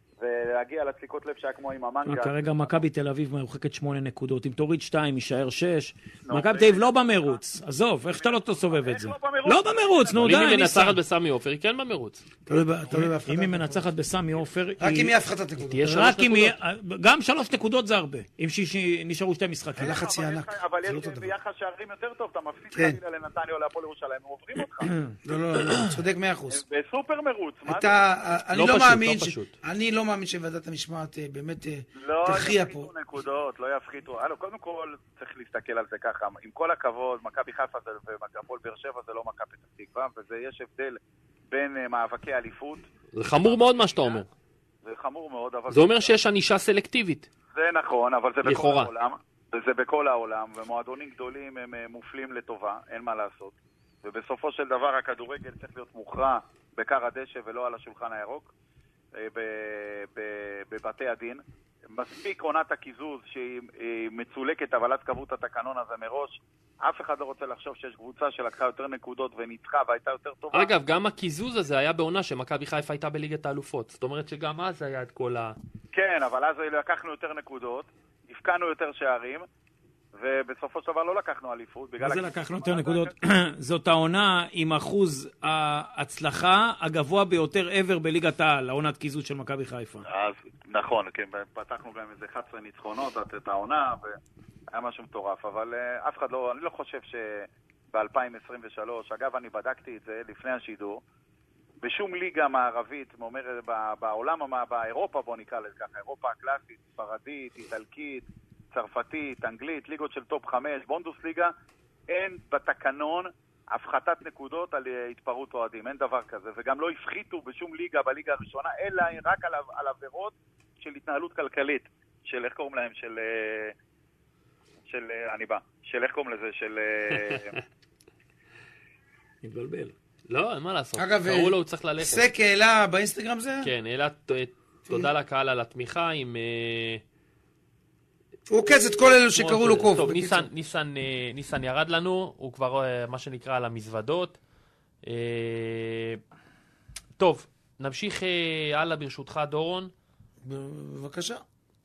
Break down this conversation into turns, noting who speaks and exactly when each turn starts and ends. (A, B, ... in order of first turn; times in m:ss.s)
0:00.2-0:02.8 A
0:02.0-0:11.0 B
0:06.2-0:07.4 A
0:08.1-0:10.3 A
0:10.2-0:12.2 C
0:12.5-0:13.8 D
0:13.0-0:15.1 B
0:14.8-0:15.8 D
0:15.6-0:16.6 C
0:15.8-0:20.0 B
0:19.8-0:21.3 D
0:19.8-0:24.9 A
0:22.7-0:23.0 D
0:25.2-0:26.6 D
0:26.5-0:28.0 A
0:27.6-0:32.9 D
0:28.5-0:29.5 C
0:32.0-0:41.0 A
0:41.5-0:44.2 A
0:43.1-0:44.3 C
0:44.8-0:46.1 A
0:45.7-0:47.3 C
0:47.5-0:58.5 A
0:48.4-0:48.9 C
0:59.1-1:10.7 A
1:10.5-1:15.6 C
1:15.9-1:19.4 A
1:20.1-1:23.1 A
1:22.0-1:30.0 B
1:30.0-1:34.2 A
1:34.7-1:41.0 A
1:41.8-1:51.5 A
1:52.1-2:03.7 A
2:04.9-2:07.6 A
2:09.4-2:09.9 B
2:10.3-2:12.2 C
2:11.0-2:13.7 D
2:13.6-2:17.0 C
2:18.5-2:20.5 D
2:19.3-2:24.4 C
2:25.0-2:26.2 C
2:27.2-2:29.9 C
2:30.4-2:31.4 D